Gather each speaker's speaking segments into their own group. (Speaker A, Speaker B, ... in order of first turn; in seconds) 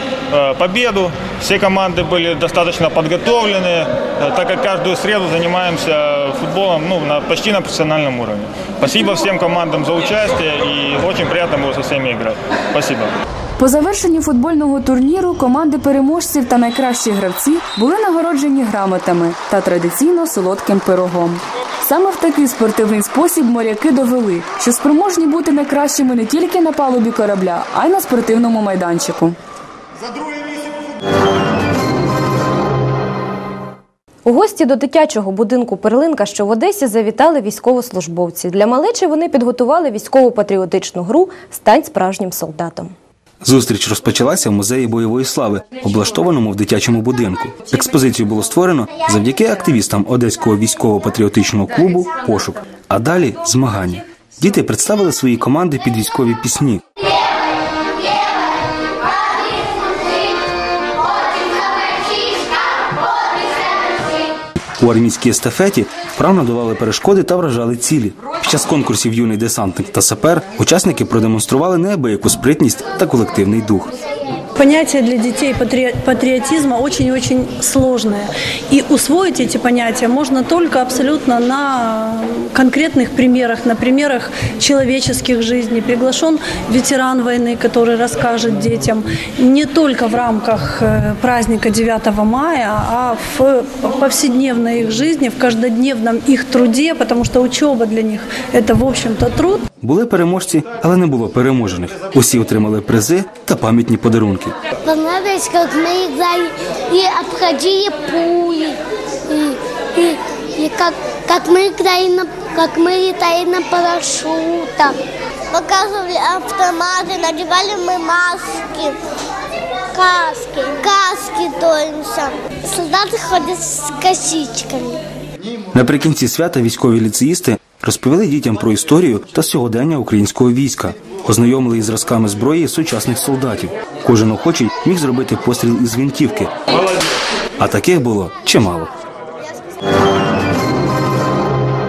Speaker A: 0.3-13.1
Speaker B: 13.6-29.4
Speaker C: 34.2-42.9
Speaker D: 43.4-56.8, 64.8-73.9, 99.8-104.5, 125.7-136.5, 137.6-138.9
Speaker E: 74.5-99.6
Speaker F: 104.8-108.8, 109.3-115.0, 115.5-119.0, 119.9-125.0